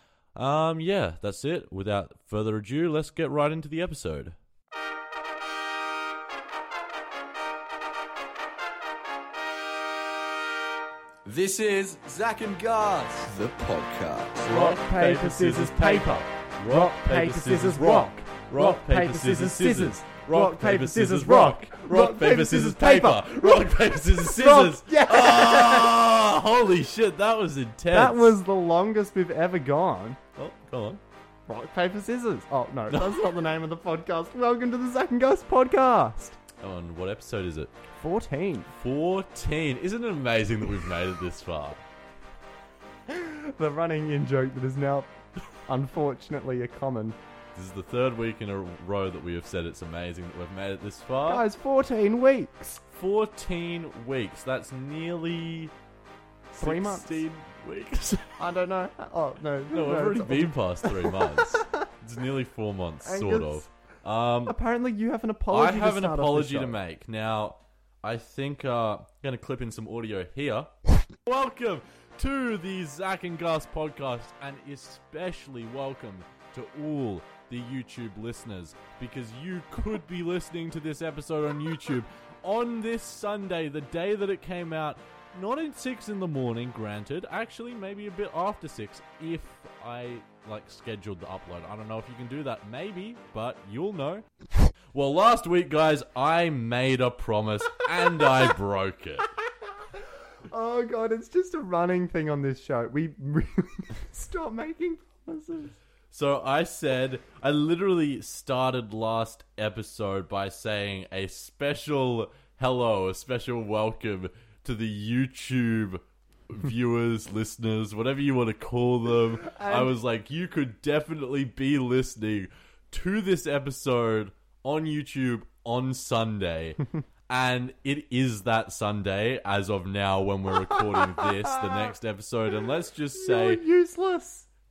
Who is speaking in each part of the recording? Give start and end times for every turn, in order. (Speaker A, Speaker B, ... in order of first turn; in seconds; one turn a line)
Speaker A: 0.3-4.4
Speaker B: 11.2-14.7
Speaker A: 14.5-28.4
Speaker C: 14.5-26.0
Speaker C: 27.9-30.2
Speaker A: 30.4-31.0
Speaker C: 31.5-36.4
Speaker A: 32.9-33.3
Speaker A: 36.6-37.8
Speaker C: 38.0-38.7
Speaker A: 38.8-41.8
Speaker C: 43.1-45.1
Speaker C: 45.7-47.2
Speaker A: 47.5-51.5
Speaker C: 51.2-52.8
Speaker A: 52.9-55.7
Speaker A: 56.5-58.4
Speaker C: 56.6-57.2
Speaker C: 58.4-61.7
Speaker A: 59.7-64.5
Speaker C: 63.0-63.7
Speaker C: 64.5-66.8
Speaker A: 65.5-70.7
Speaker A: 71.2-94.3
Speaker A: 94.9-99.3
Speaker C: 99.9-105.8
Speaker A: 106.1-133.6
Speaker C: 119.4-120.0
Speaker C: 130.7-131.9
Speaker C: 133.1-134.5